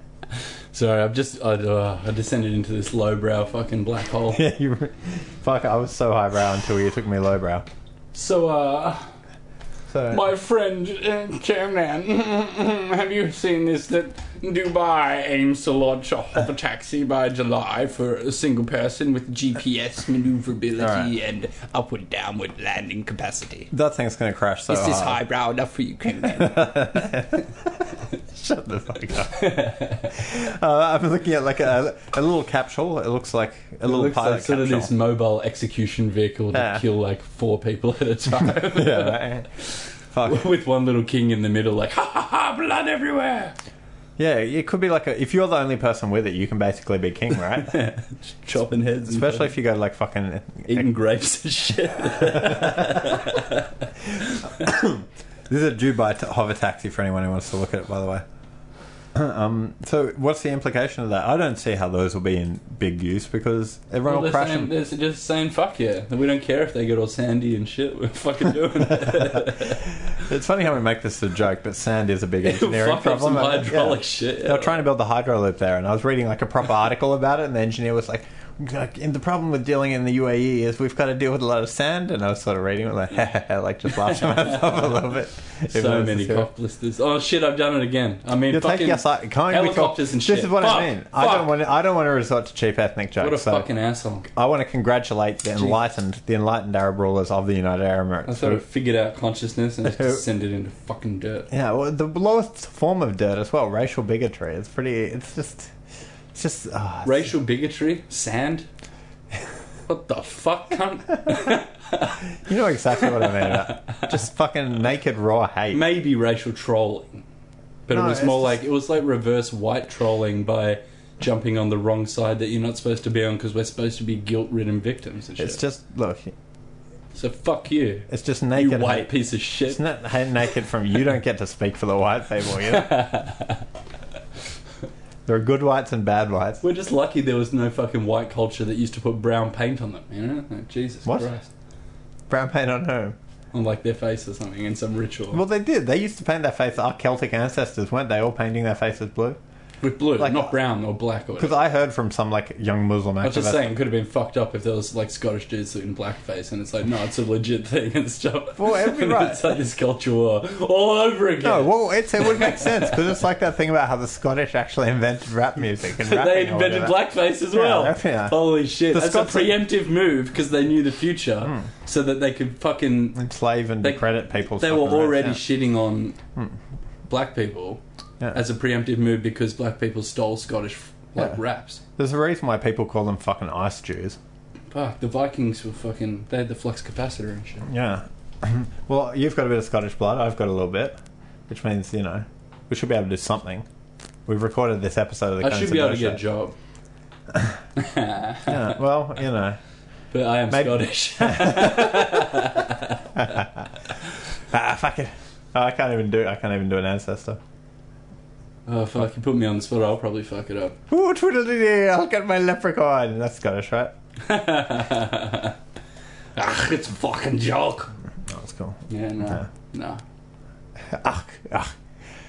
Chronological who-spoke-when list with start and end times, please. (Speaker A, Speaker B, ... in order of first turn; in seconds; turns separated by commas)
Speaker A: 0.7-4.4, Speaker B: 4.3-7.7, Speaker A: 8.1-9.0, Speaker B: 9.9-10.2, Speaker A: 10.1-11.2, Speaker C: 11.1-23.7, Speaker B: 20.8-21.1, Speaker B: 23.7-25.2, Speaker C: 24.7-27.1, Speaker B: 26.2-27.5, Speaker B: 28.3-34.9, Speaker A: 29.3-30.1, Speaker A: 33.8-39.6, Speaker B: 36.5-36.8, Speaker B: 38.6-39.5, Speaker B: 40.1-40.4, Speaker A: 40.2-43.5, Speaker B: 44.2-47.8, Speaker A: 47.6-49.5, Speaker B: 49.1-50.9, Speaker A: 50.7-54.5, Speaker B: 54.5-58.2, Speaker B: 59.1-64.7, Speaker A: 64.1-69.8, Speaker B: 70.1-86.5, Speaker A: 72.4-74.8, Speaker A: 85.7-91.5, Speaker B: 88.5-93.7, Speaker A: 93.2-94.3, Speaker B: 94.3-98.6, Speaker A: 98.3-101.5, Speaker B: 101.5-105.7, Speaker B: 106.3-107.3, Speaker A: 107.0-108.7, Speaker A: 109.9-112.2, Speaker B: 112.4-115.8, Speaker A: 113.2-114.0, Speaker A: 115.7-117.2, Speaker A: 117.9-125.6, Speaker B: 117.9-118.6, Speaker B: 125.4-126.3, Speaker A: 127.1-129.8, Speaker B: 128.1-133.1, Speaker A: 132.7-133.6, Speaker B: 135.3-136.6, Speaker A: 136.6-141.5, Speaker B: 142.3-143.2, Speaker A: 143.5-145.4, Speaker B: 145.3-149.4, Speaker A: 149.8-151.6, Speaker B: 150.2-150.5, Speaker B: 151.4-153.7, Speaker A: 153.2-163.0, Speaker B: 158.6-159.4, Speaker B: 161.4-169.6, Speaker A: 166.0-173.2, Speaker B: 173.2-175.4, Speaker A: 173.8-176.2, Speaker A: 177.1-177.8, Speaker A: 178.3-181.8, Speaker B: 182.0-184.2, Speaker A: 184.7-187.7, Speaker B: 187.7-191.0, Speaker B: 191.5-193.7, Speaker B: 194.3-196.2, Speaker A: 195.4-196.6, Speaker A: 197.8-198.7, Speaker B: 198.4-199.6, Speaker A: 200.1-203.3, Speaker B: 200.5-202.2, Speaker B: 203.2-203.5, Speaker B: 204.5-207.4, Speaker A: 208.7-210.8, Speaker B: 210.9-213.9, Speaker A: 214.2-215.6, Speaker A: 216.4-217.9, Speaker B: 218.3-219.4, Speaker A: 218.9-220.0, Speaker B: 220.9-221.7